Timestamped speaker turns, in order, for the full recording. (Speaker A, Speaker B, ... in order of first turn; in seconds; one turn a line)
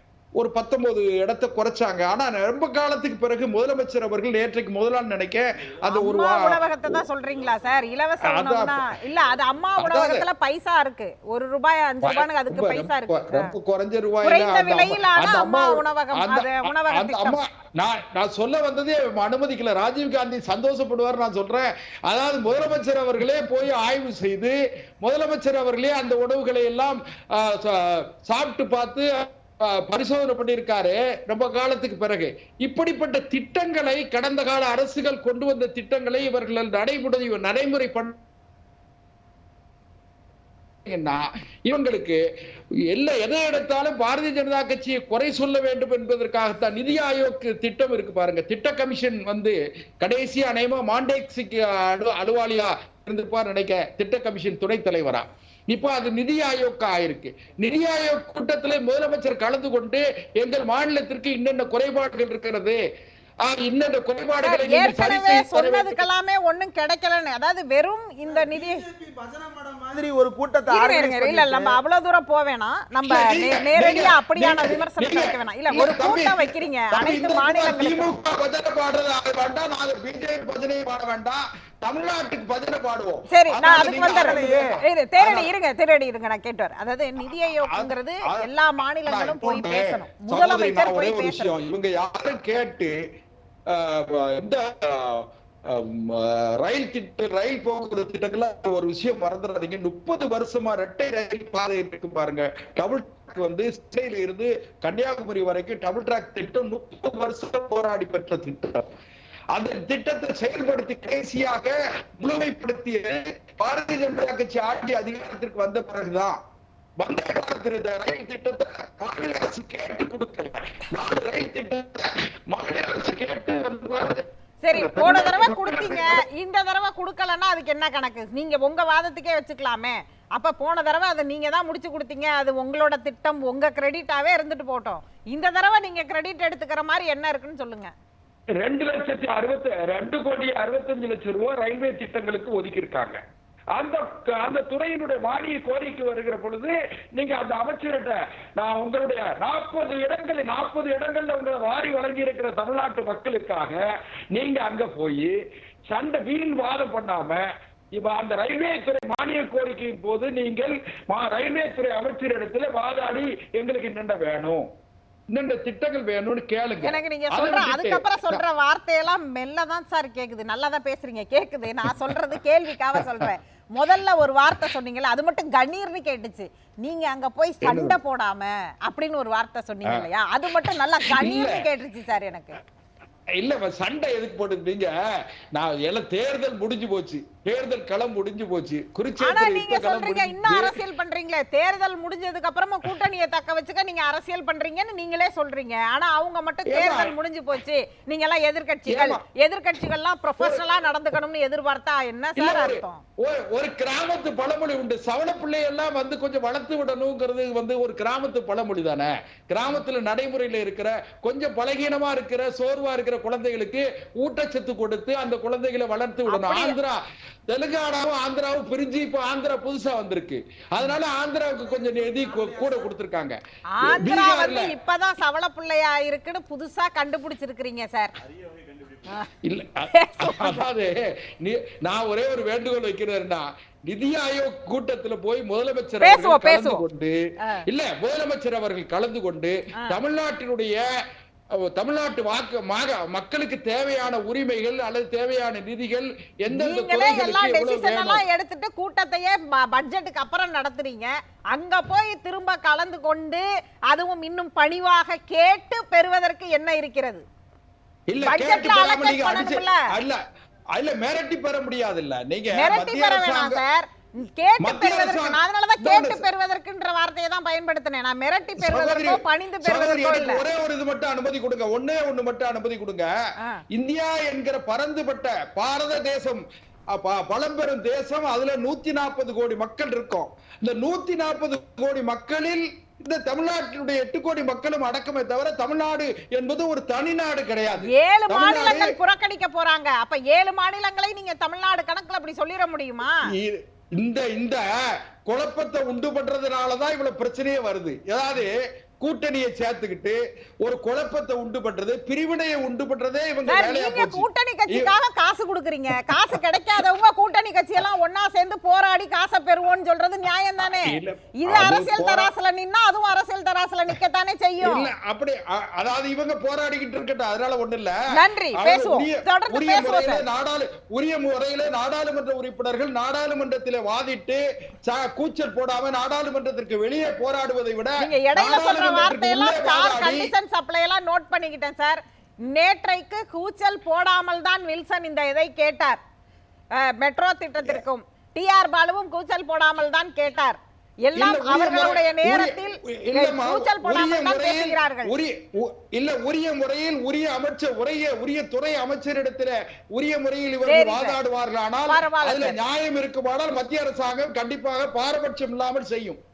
Speaker A: 0.4-7.0
Speaker B: 5.9-13.5
Speaker A: 8.3-8.8
Speaker A: 9.8-10.2
Speaker A: 12.0-38.2
Speaker B: 14.2-17.4
Speaker A: 40.9-42.2
Speaker A: 42.9-62.8
Speaker A: 63.4-66.0
Speaker B: 64.4-68.8
Speaker C: 68.3-71.8
Speaker B: 70.7-78.1
Speaker A: 73.1-84.7
Speaker B: 83.3-91.5
Speaker C: 83.8-84.7
Speaker A: 85.2-85.5
Speaker A: 87.7-88.5
Speaker A: 89.0-92.9
Speaker A: 93.7-108.9
Speaker A: 109.5-116.4
Speaker A: 117.0-126.2
Speaker B: 124.6-137.9
Speaker A: 138.6-143.2
Speaker A: 143.8-153.8
Speaker A: 154.3-155.4
Speaker A: 155.9-157.4
Speaker A: 157.9-164.7
Speaker A: 165.3-168.4
Speaker B: 166.8-182.6
Speaker A: 172.9-173.2
Speaker A: 177.6-178.0
Speaker A: 181.1-181.6
Speaker A: 183.4-184.9
Speaker A: 185.5-190.8
Speaker B: 189.2-203.0
Speaker A: 196.7-197.1
Speaker A: 198.9-199.2
Speaker A: 200.4-200.7
Speaker A: 202.4-224.7
Speaker B: 216.3-216.7
Speaker B: 223.8-228.1
Speaker A: 229.4-237.1
Speaker B: 229.9-230.6
Speaker B: 236.0-236.8
Speaker A: 237.7-240.8
Speaker A: 241.6-248.2
Speaker B: 246.5-257.2
Speaker A: 258.1-260.2
Speaker B: 258.2-259.8
Speaker A: 260.8-263.6
Speaker B: 262.5-270.4
Speaker A: 264.6-266.3
Speaker A: 268.6-273.1
Speaker A: 273.7-276.4
Speaker A: 276.9-289.0
Speaker B: 287.9-293.2
Speaker A: 293.2-294.7
Speaker A: 295.2-304.9
Speaker B: 303.5-314.9
Speaker A: 306.1-306.4
Speaker A: 310.6-312.3
Speaker A: 314.6-318.0
Speaker B: 318.1-320.2
Speaker A: 318.5-330.3
Speaker B: 328.0-336.0
Speaker B: 336.8-345.1
Speaker A: 341.1-356.2
Speaker B: 350.6-351.2
Speaker B: 351.9-352.6